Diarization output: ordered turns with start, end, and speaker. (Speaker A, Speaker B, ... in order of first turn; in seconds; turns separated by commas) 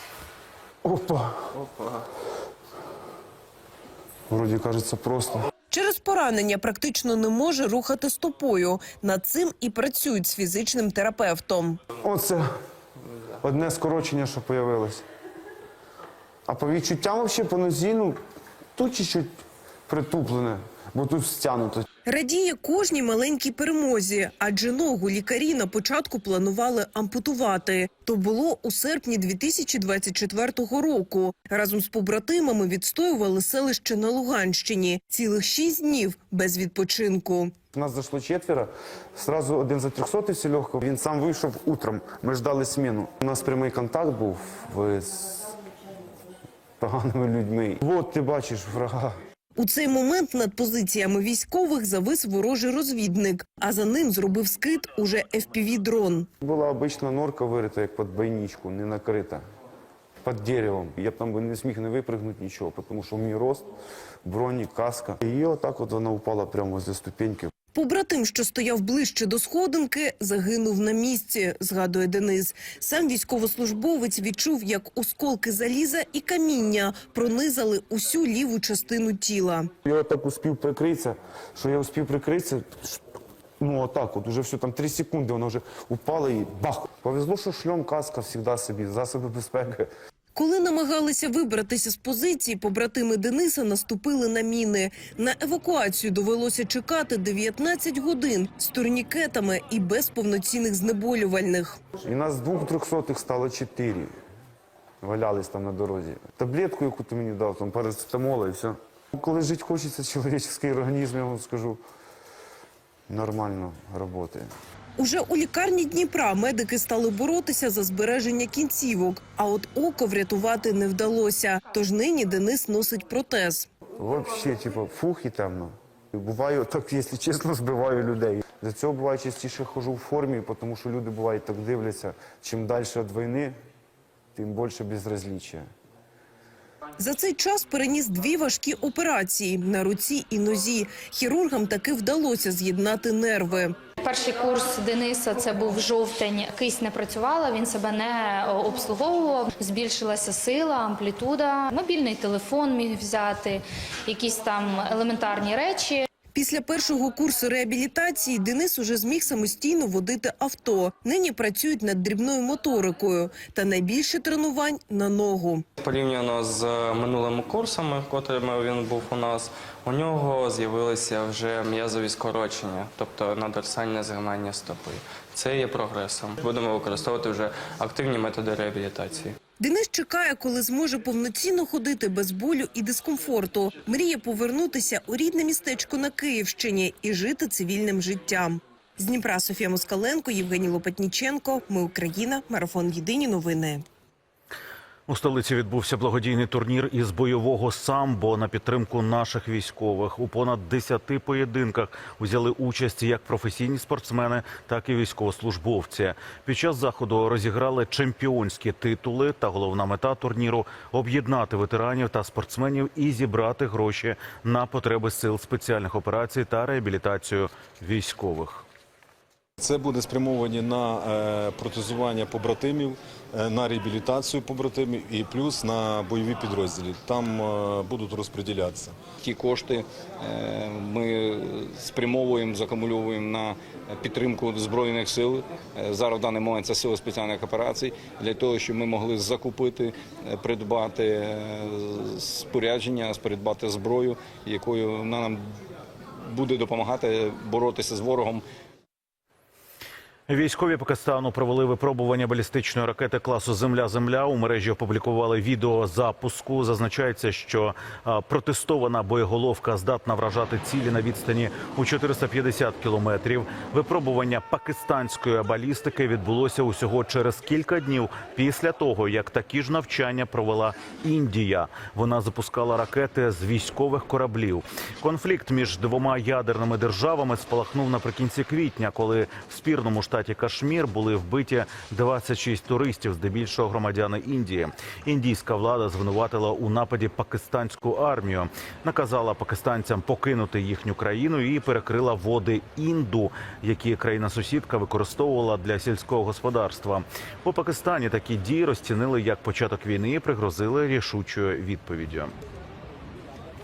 Speaker A: 0.8-1.6, Speaker A: 4.3-5.5, Speaker B: 5.7-11.8, Speaker A: 11.9-12.5, Speaker A: 13.4-15.0, Speaker A: 16.5-18.2, Speaker A: 18.8-19.3, Speaker A: 19.9-21.9, Speaker B: 22.1-37.5, Speaker A: 37.7-45.5, Speaker A: 46.8-49.2, Speaker B: 49.6-56.3, Speaker A: 56.4-59.4, Speaker A: 60.2-63.7, Speaker A: 64.2-67.5, Speaker B: 67.7-79.7, Speaker A: 79.8-83.0, Speaker A: 83.6-89.9, Speaker B: 90.4-101.8, Speaker A: 102.0-104.1, Speaker A: 105.0-111.8, Speaker A: 113.1-114.5, Speaker B: 115.0-123.7, Speaker A: 124.0-133.6, Speaker A: 134.3-135.7, Speaker B: 137.0-143.8, Speaker C: 144.0-156.1, Speaker B: 156.3-165.6, Speaker D: 165.8-179.4, Speaker B: 179.6-193.8, Speaker E: 195.1-218.7, Speaker F: 219.6-228.9, Speaker G: 229.2-245.4, Speaker G: 246.2-248.4, Speaker E: 250.3-302.3